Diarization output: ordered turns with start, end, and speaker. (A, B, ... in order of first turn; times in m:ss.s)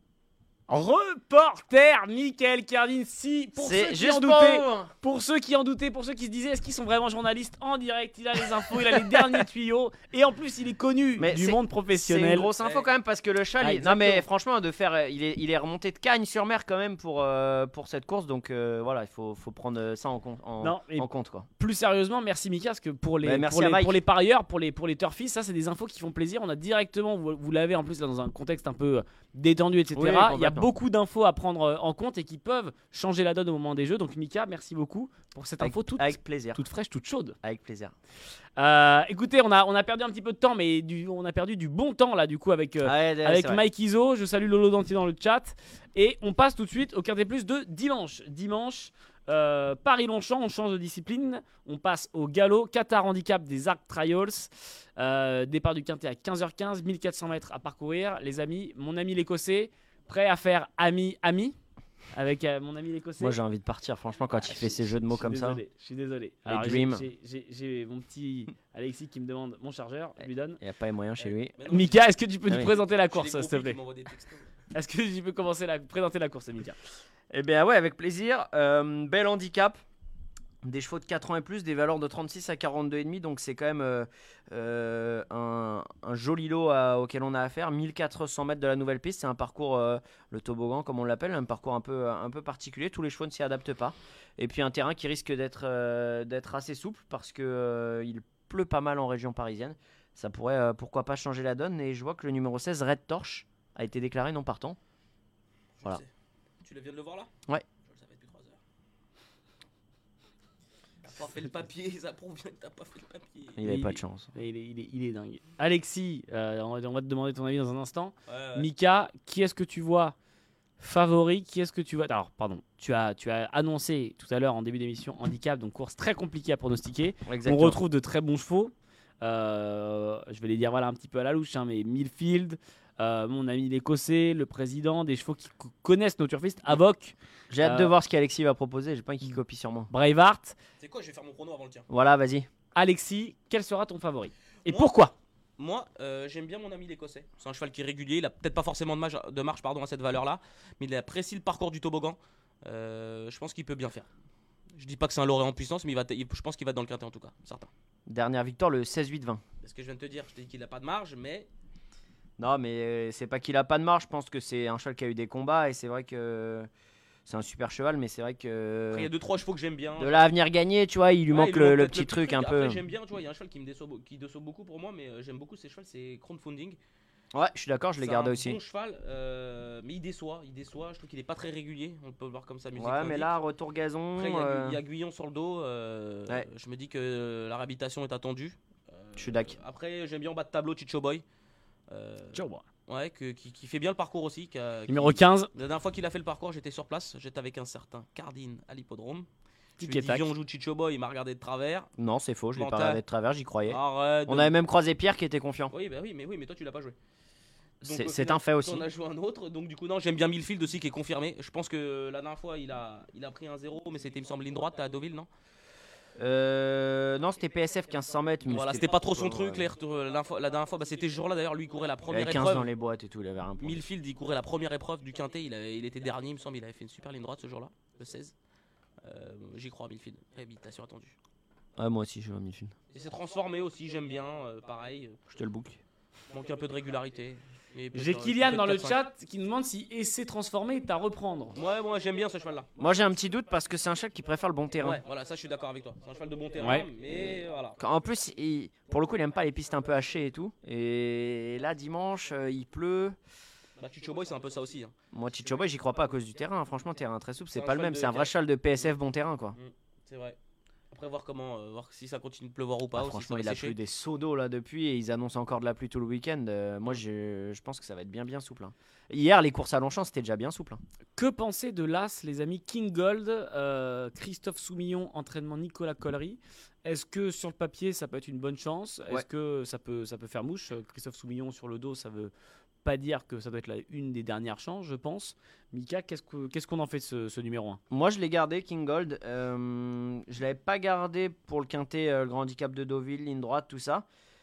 0:00.7-0:12.5 A
0:03.6-0:04.9 B
0:08.9-0:09.4 B
0:11.2-0:21.5 B
0:12.6-0:12.9 C
0:13.6-0:14.2 A
0:20.6-0:37.4 A
0:23.2-0:24.0 B
0:29.9-0:30.7 B
0:35.6-0:36.6 B
0:37.4-0:37.9 B
0:38.6-1:01.6 A
0:42.8-0:43.6 B
1:02.1-1:03.4 A
1:03.2-1:05.6 B
1:04.4-1:10.6 A
1:06.5-1:07.1 B
1:10.6-1:11.6 B
1:11.2-1:14.5 C
1:11.7-1:13.8 A
1:14.7-1:16.8 A
1:17.3-1:19.8 B
1:20.6-1:44.8 B
1:45.8-1:46.1 C
1:46.6-1:47.3 C
1:47.8-1:48.6 C
1:51.0-1:53.6 C
1:53.6-1:54.3 B
1:53.6-2:00.2 A
1:58.3-1:58.7 C
2:00.8-2:17.9 A
2:07.3-2:07.8 B
2:17.5-2:19.9 B
2:19.9-2:20.6 A
2:20.8-2:21.9 C
2:21.9-2:22.5 B
2:22.8-2:25.1 A
2:24.6-2:25.0 C
2:25.6-2:34.1 C
2:34.8-2:37.7 C
2:38.1-2:39.4 B
2:39.6-2:41.5 C
2:42.4-2:46.7 B
2:47.3-2:49.1 B
2:48.9-2:50.3 C
2:50.0-2:52.8 B
2:51.3-2:56.8 C
2:57.3-2:58.6 B
2:58.0-3:03.3 C
3:02.8-3:04.8 B
3:04.2-3:11.2 C
3:09.2-3:09.6 B
3:11.9-3:19.3 C
3:12.3-3:12.6 A
3:14.9-3:15.5 A
3:19.8-3:21.9 C
3:19.8-3:20.3 A
3:22.0-3:25.7 B
3:22.6-3:23.0 C
3:23.6-3:24.6 C
3:25.7-3:27.0 C
3:27.8-3:28.9 B
3:27.8-3:35.3 C
3:36.2-3:39.7 B
3:38.5-3:42.7 C
3:42.1-3:43.8 B
3:43.6-3:48.3 C
3:49.0-3:51.1 C
3:51.8-3:52.8 B
3:52.9-3:55.2 C
3:55.3-3:55.8 B
3:56.3-3:59.0 C
3:57.9-4:01.6 A
4:01.6-4:02.7 C
4:02.8-4:05.0 B
4:04.8-4:07.8 C
4:06.6-4:06.9 A
4:07.8-4:13.2 B
4:13.8-4:15.0 C
4:15.1-4:19.6 B
4:17.5-4:18.3 C
4:19.6-4:20.4 C
4:20.9-4:23.8 C
4:22.9-4:30.8 B
4:31.2-4:42.3 A
4:42.8-4:47.8 A
4:47.9-4:54.0 B